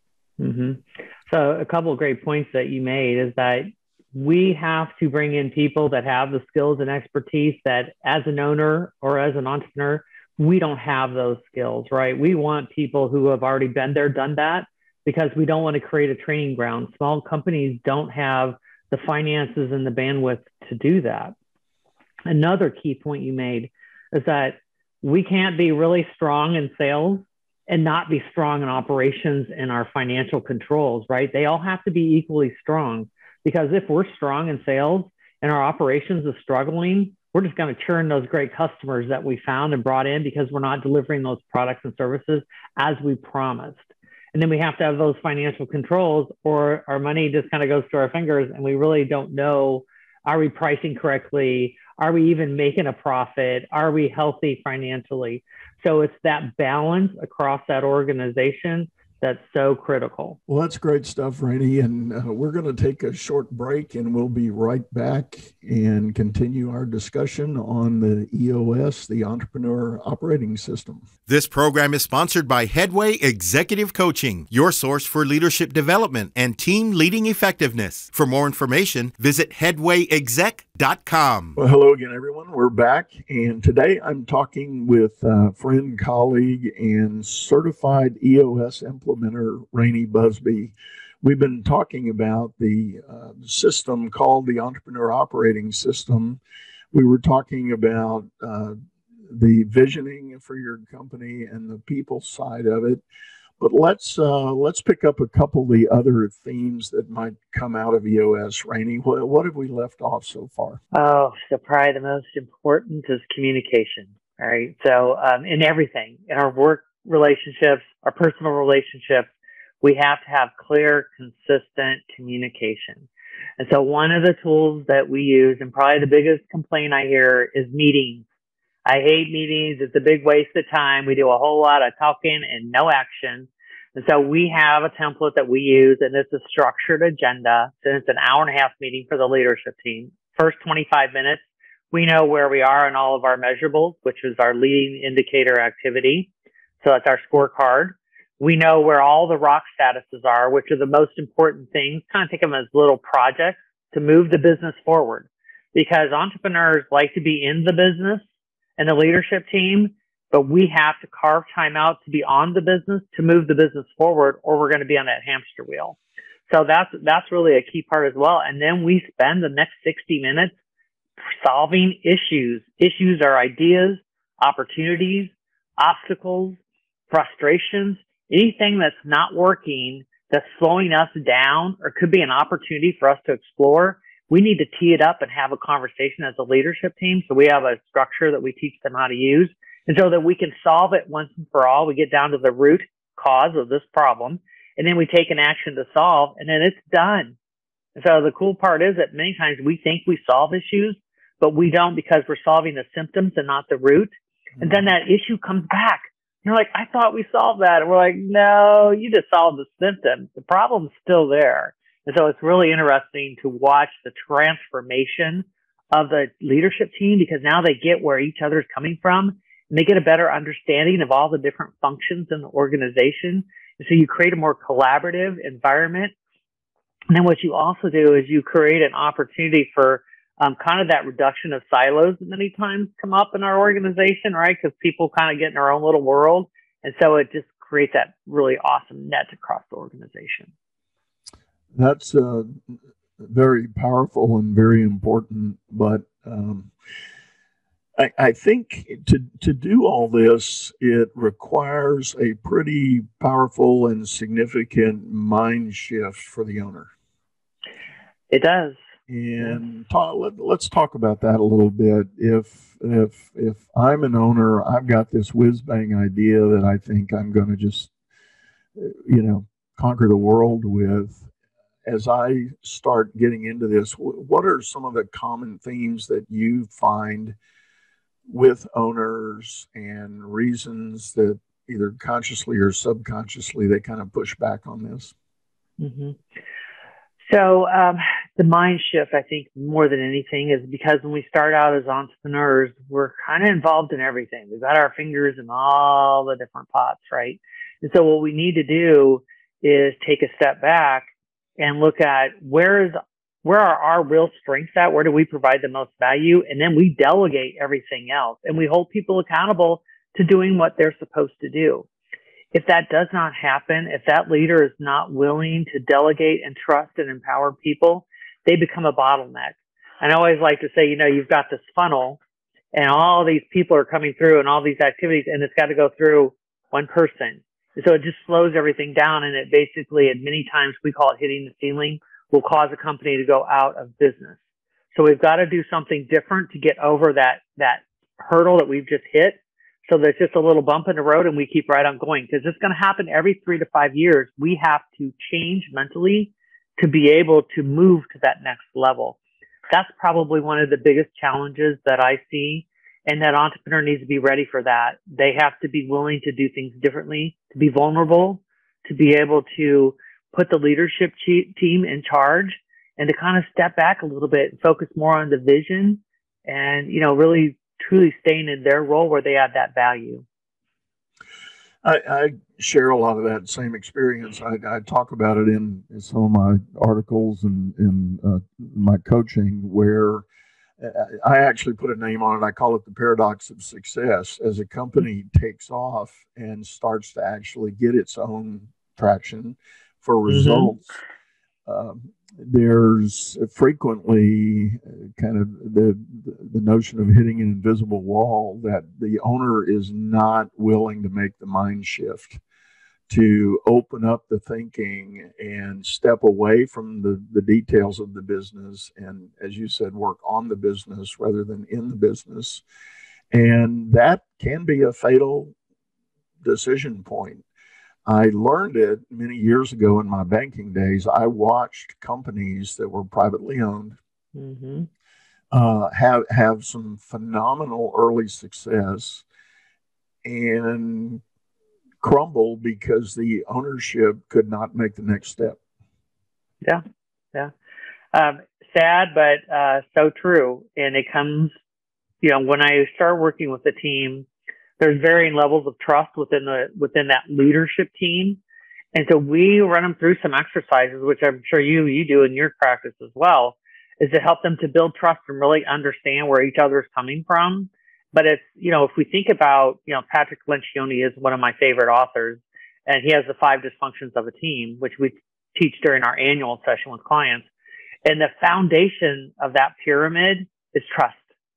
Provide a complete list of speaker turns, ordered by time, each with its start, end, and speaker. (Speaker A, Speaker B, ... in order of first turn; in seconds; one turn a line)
Speaker A: 0.4-21.3
Speaker A: 22.3-60.4
Speaker B: 60.5-71.1
Speaker C: 71.3-81.6
Speaker B: 81.6-96.4
Speaker B: 96.9-103.0
Speaker B: 103.6-110.8
Speaker A: 110.9-119.3
Speaker A: 119.8-123.1
Speaker A: 123.6-128.2
Speaker A: 128.9-146.3
Speaker A: 146.8-158.2
Speaker A: 158.8-166.0
Speaker A: 166.5-170.5
Speaker A: 171.3-176.6
Speaker A: 177.1-197.4
Speaker A: 198.0-204.1
Speaker B: 204.6-204.9
Speaker A: 204.6-226.1
Speaker A: 227.1-240.5
Speaker B: 241.7-242.6
Speaker B: 243.2-246.7
Speaker B: 248.0-256.9
Speaker A: 258.3-258.8
Speaker B: 259.1-267.9
Speaker B: 268.8-271.3
Speaker B: 271.9-277.4
Speaker B: 278.3-285.1
Speaker A: 285.8-286.2
Speaker A: 287.3-311.9
Speaker A: 312.5-322.2
Speaker A: 322.7-334.4
Speaker A: 334.9-349.2
Speaker A: 349.7-370.2
Speaker B: 371.8-380.3
Speaker B: 380.8-391.0
Speaker A: 390.3-390.7
Speaker B: 391.7-402.4
Speaker B: 403.1-412.6
Speaker B: 413.3-415.5
Speaker B: 416.4-417.4
Speaker B: 418.1-424.0
Speaker A: 424.4-424.9
Speaker B: 425.5-429.2
Speaker B: 430.2-431.2
Speaker B: 432.0-435.6
Speaker A: 438.1-441.5
Speaker A: 442.2-444.3
Speaker A: 444.8-448.4
Speaker A: 448.9-467.5
Speaker A: 468.1-471.3